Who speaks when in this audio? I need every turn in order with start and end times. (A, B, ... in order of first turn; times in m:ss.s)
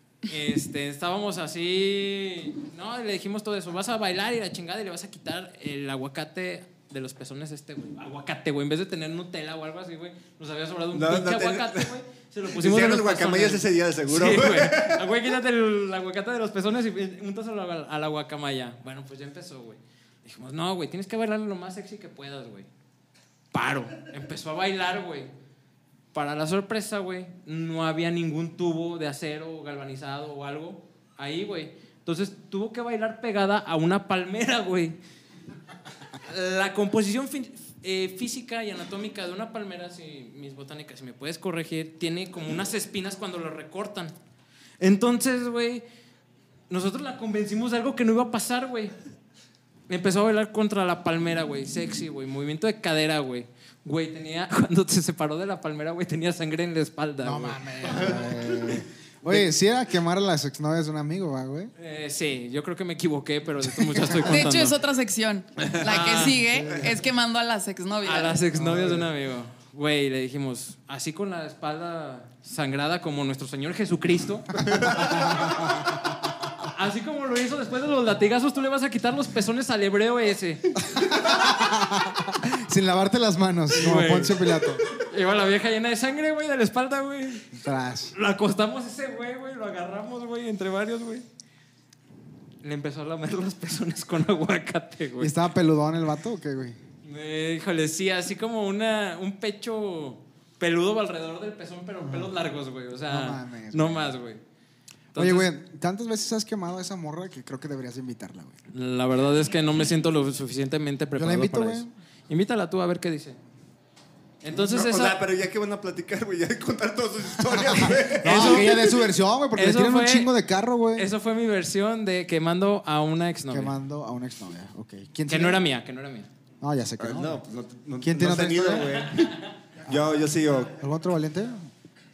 0:00.2-0:22.7 A
0:10.9-0:11.9 B
0:12.6-0:15.0 B
0:23.5-0:25.3 A
0:26.1-0:35.0 A
0:36.2-0:44.1 A
0:44.8-0:45.8 A
0:46.7-0:48.9 A
0:49.9-0:57.6 A
0:57.2-1:01.7 C
1:01.8-1:04.8 A
1:03.7-1:04.5 C
1:04.2-1:08.4 D
1:05.7-1:06.5 A
1:06.5-1:07.0 C
1:08.0-1:15.7 A
1:08.6-1:09.0 C
1:14.9-1:15.9 C
1:16.6-1:20.7 A
1:21.0-1:24.8 C
1:23.7-1:27.5 A
1:27.5-1:28.1 C
1:28.1-1:31.2 A
1:32.6-1:35.3 A
1:35.2-1:36.8 C
1:37.0-1:44.4 A
1:43.1-1:44.1 C
1:45.1-1:45.5 A
1:45.1-1:48.6 C
1:48.7-1:53.4 A
1:51.2-1:51.9 C
1:54.4-1:55.2 A
1:54.5-1:58.8 B
1:57.7-2:01.1 C
1:58.2-1:58.8 A
1:59.5-2:00.3 A
2:00.9-2:03.8 A
2:03.5-2:05.6 C
2:05.3-2:06.3 A
2:06.6-2:07.4 C
2:07.0-2:10.7 B
2:08.0-2:09.0 C
2:09.9-2:10.1 C
2:10.6-2:11.7 C